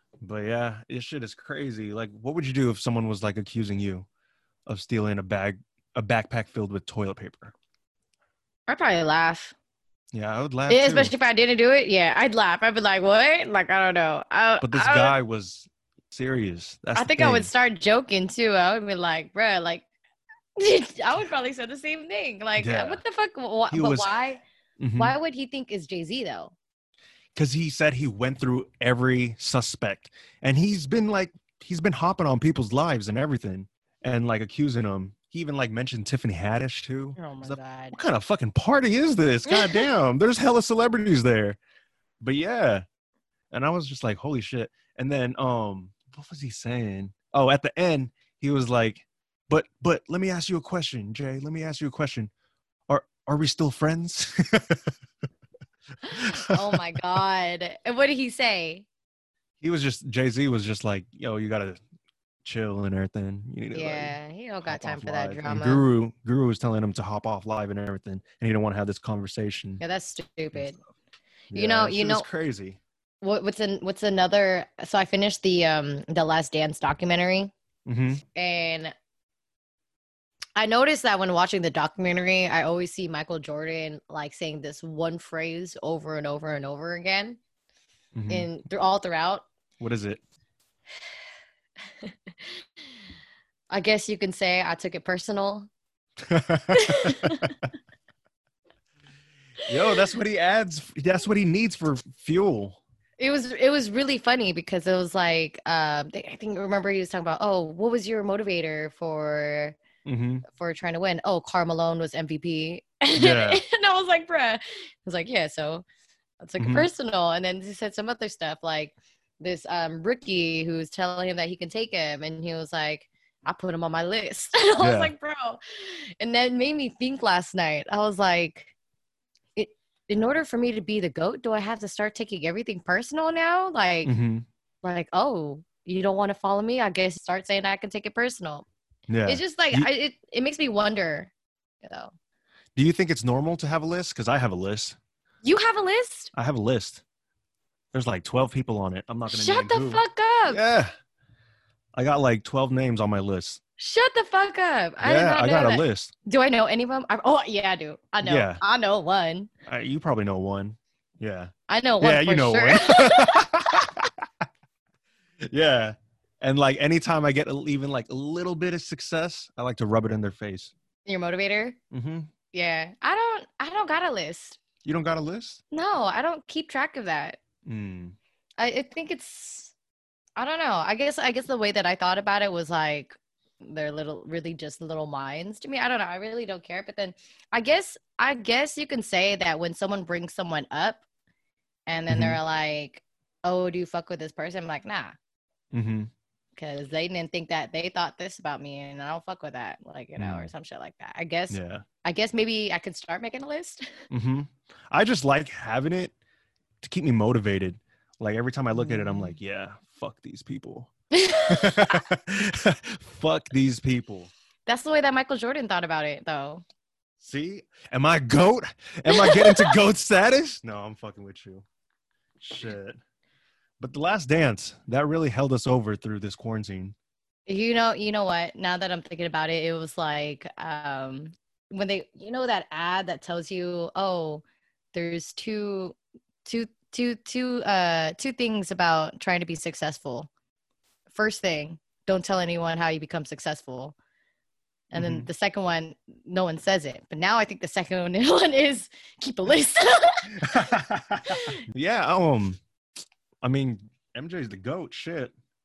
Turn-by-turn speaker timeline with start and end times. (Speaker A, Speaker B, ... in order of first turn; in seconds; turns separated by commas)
Speaker A: 0.2-4.1, Speaker A: 4.7-7.5, Speaker B: 8.7-9.6, Speaker A: 10.1-11.1, Speaker B: 10.7-15.2, Speaker A: 14.6-17.5, Speaker B: 16.9-19.9, Speaker B: 20.6-24.4, Speaker A: 22.6-23.0, Speaker A: 23.7-24.1, Speaker A: 24.8-25.1, Speaker B: 25.0-26.6, Speaker A: 27.4-41.6, Speaker B: 37.2-38.0, Speaker B: 39.5-39.8, Speaker A: 42.2-42.8, Speaker A: 43.5-52.3, Speaker A: 52.9-54.9, Speaker B: 56.0-58.9, Speaker A: 56.2-56.8, Speaker A: 59.6-61.8, Speaker A: 62.5-69.8, Speaker B: 63.7-65.9, Speaker B: 69.8-70.8, Speaker A: 71.5-72.8, Speaker B: 71.5-72.3, Speaker B: 73.2-77.5, Speaker A: 77.9-78.2, Speaker B: 78.3-78.9, Speaker B: 80.6-87.4, Speaker A: 88.2-88.5, Speaker B: 88.3-89.5, Speaker A: 89.8-90.2, Speaker B: 93.7-95.7, Speaker A: 96.3-97.5, Speaker B: 96.7-97.6, Speaker A: 99.7-102.8, Speaker B: 103.2-109.8, Speaker A: 110.0-110.5, Speaker B: 110.5-115.8, Speaker A: 113.2-113.6, Speaker B: 116.4-128.7, Speaker A: 116.6-116.9, Speaker A: 124.8-125.1, Speaker B: 129.6-134.1, Speaker A: 134.1-134.5, Speaker B: 134.8-138.7, Speaker A: 139.1-139.9, Speaker B: 139.3-141.3, Speaker B: 141.8-142.1, Speaker A: 142.8-145.0, Speaker B: 145.4-146.3, Speaker A: 146.3-147.0, Speaker A: 147.9-150.9, Speaker B: 149.3-150.6, Speaker A: 151.9-153.6, Speaker B: 153.8-159.5, Speaker A: 155.0-156.1, Speaker A: 158.2-158.6, Speaker A: 159.7-164.3, Speaker B: 161.7-163.8, Speaker A: 165.5-170.7, Speaker B: 171.1-171.8, Speaker A: 171.9-172.3, Speaker B: 172.5-174.6, Speaker A: 174.8-175.6, Speaker B: 175.7-177.4, Speaker A: 177.7-178.2, Speaker B: 178.6-179.7, Speaker B: 180.4-191.0, Speaker B: 191.9-195.2, Speaker A: 192.1-192.4, Speaker A: 195.7-196.1, Speaker B: 196.6-203.9, Speaker A: 200.2-200.5, Speaker A: 201.5-201.8, Speaker A: 204.1-206.1, Speaker A: 206.8-210.9, Speaker B: 208.7-209.4, Speaker B: 211.1-212.0, Speaker A: 211.5-214.3, Speaker B: 214.7-216.6, Speaker A: 217.2-221.6, Speaker B: 219.1-219.8, Speaker A: 222.4-223.0, Speaker A: 223.8-226.9, Speaker B: 227.5-240.3, Speaker B: 241.1-244.0, Speaker B: 244.9-250.5, Speaker A: 244.9-245.3, Speaker A: 250.4-252.6, Speaker B: 251.3-251.6, Speaker A: 253.4-255.3